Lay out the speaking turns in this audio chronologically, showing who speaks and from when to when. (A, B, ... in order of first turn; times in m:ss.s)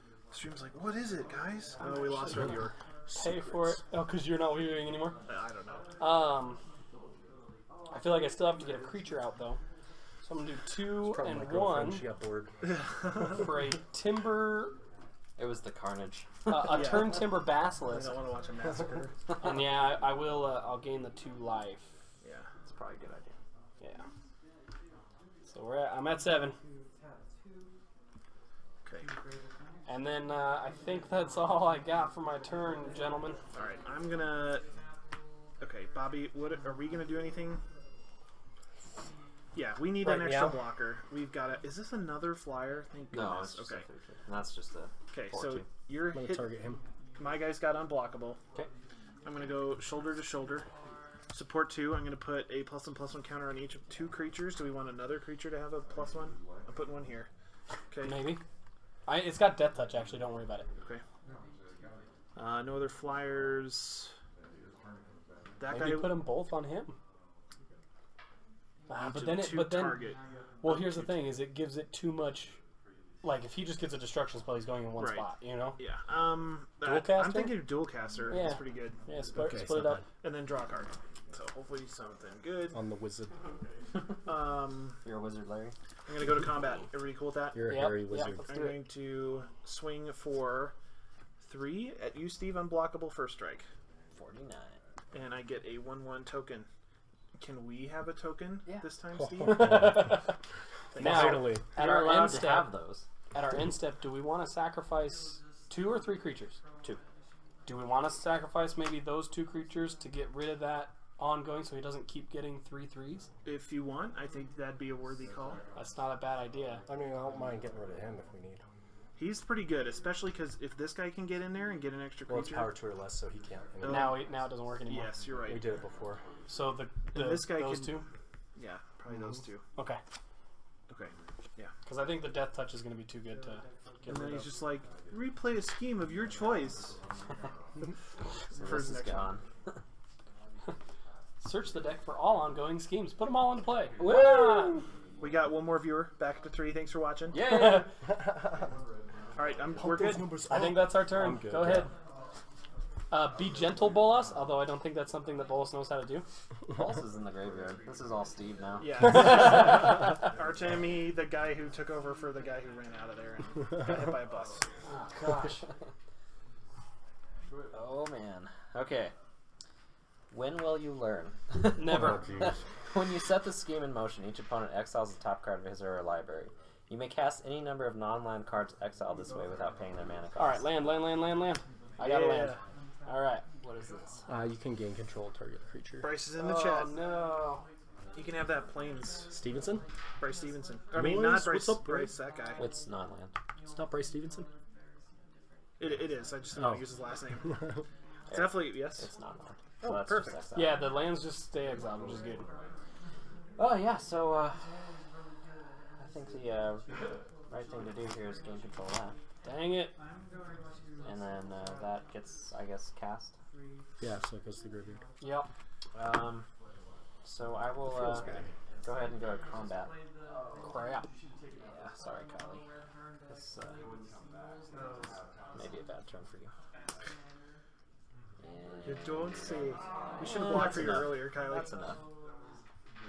0:00.3-0:02.7 A
0:01.8-0:02.6 B
0:03.1-0:03.8 C
0:03.2-0:05.2 B
0:05.3-0:05.9 A
0:06.0-0:06.6 B
0:07.9-0:09.6 B
0:10.2-0:12.0 B
0:11.0-0:12.5 C
0:12.7-0:13.4 A
0:13.2-0:14.8 B
0:15.4-0:17.0 D
0:16.5-0:18.2 B
0:16.6-0:19.1 A
0:19.4-0:21.9 B
0:22.6-0:23.4 D
0:25.5-0:26.6 B
0:29.9-0:33.4 B
0:33.5-0:34.7 A
0:35.6-0:37.6 A
0:39.5-0:43.9 A
0:40.0-0:40.6 C
0:43.1-0:45.7 D
0:45.1-0:46.5 A
0:46.1-0:46.8 C
0:47.2-0:48.4 A
0:49.2-0:50.7 A
0:51.3-0:57.3 A
0:57.9-0:58.4 A
0:58.0-0:58.4 B
0:59.1-1:00.7 B
1:02.4-1:04.1 A
1:05.6-1:06.2 A
1:05.7-1:07.0 B
1:08.9-1:10.1 B
1:09.0-1:11.3 A
1:10.6-1:12.6 B
1:13.2-1:15.8 B
1:15.0-1:15.3 A
1:15.8-1:19.0 A
1:16.8-1:17.8 B
1:18.3-1:20.0 B
1:19.4-1:20.0 C
1:20.2-1:22.8 A
1:22.7-1:23.3 C
1:24.2-1:25.0 A
1:25.0-1:25.8 D
1:26.1-1:30.7 A
1:27.5-1:28.6 C
1:27.7-1:28.9 B
1:31.4-1:33.7 A
1:34.1-1:34.8 D
1:35.1-1:36.7 A
1:37.4-1:40.0 A
1:39.2-1:40.2 C
1:39.4-1:40.4 B
1:41.0-1:41.5 A
1:41.0-1:41.6 C
1:41.0-1:42.7 B
1:41.8-1:43.1 D
1:43.3-1:46.6 B
1:47.7-1:53.3 B
1:53.4-1:55.6 A
1:55.8-1:56.8 B
1:56.9-1:58.6 C
1:59.2-2:02.7 A
2:02.3-2:04.2 C
2:03.8-2:04.3 A
2:03.8-2:05.1 B
2:04.9-2:05.6 A
2:05.5-2:06.2 C
2:06.5-2:08.1 B
2:07.1-2:08.0 A
2:08.6-2:09.7 A
2:09.8-2:10.0 B
2:10.9-2:11.7 A
2:11.9-2:14.5 B
2:14.1-2:17.0 A
2:18.5-2:19.3 A
2:18.5-2:19.8 D
2:21.4-2:24.6 B
2:24.0-2:24.8 D
2:25.2-2:27.5 A
2:27.3-2:27.9 D
2:27.3-2:27.9 B
2:28.2-2:28.6 C
2:29.4-2:30.4 A
2:29.8-2:31.9 C
2:30.5-2:31.9 B
2:33.1-2:36.3 B
2:36.7-2:39.4 D
2:38.8-2:44.7 A
2:44.9-2:45.6 B
2:45.3-2:45.7 D
2:47.7-2:49.1 D
2:50.3-3:00.6 D
2:51.8-2:52.3 B
2:51.8-2:52.6 C
3:00.4-3:03.4 B
3:02.0-3:02.6 A
3:03.6-3:04.2 D
3:04.3-3:06.2 C
3:06.0-3:07.0 A
3:06.4-3:07.6 B
3:08.2-3:09.3 A
3:09.3-3:09.8 C
3:10.2-3:12.6 A
3:10.9-3:12.2 C
3:12.6-3:13.3 D
3:13.7-3:14.5 C
3:15.8-3:17.6 A
3:16.6-3:16.9 C
3:17.4-3:17.8 C
3:18.3-3:19.1 A
3:18.3-3:20.9 D
3:19.8-3:20.4 A
3:20.6-3:22.4 B
3:23.6-3:24.7 D
3:26.0-3:26.9 D
3:27.5-3:29.2 D
3:29.4-3:30.0 B
3:31.0-3:33.4 D
3:34.0-3:35.0 C
3:35.2-3:35.5 B
3:36.0-3:36.5 D
3:37.2-3:39.9 D
3:37.9-3:38.5 C
3:40.6-3:41.1 B
3:41.6-3:42.6 D
3:43.3-3:43.8 D
3:45.5-3:46.5 D
3:48.4-3:52.0 D
3:48.8-3:51.7 A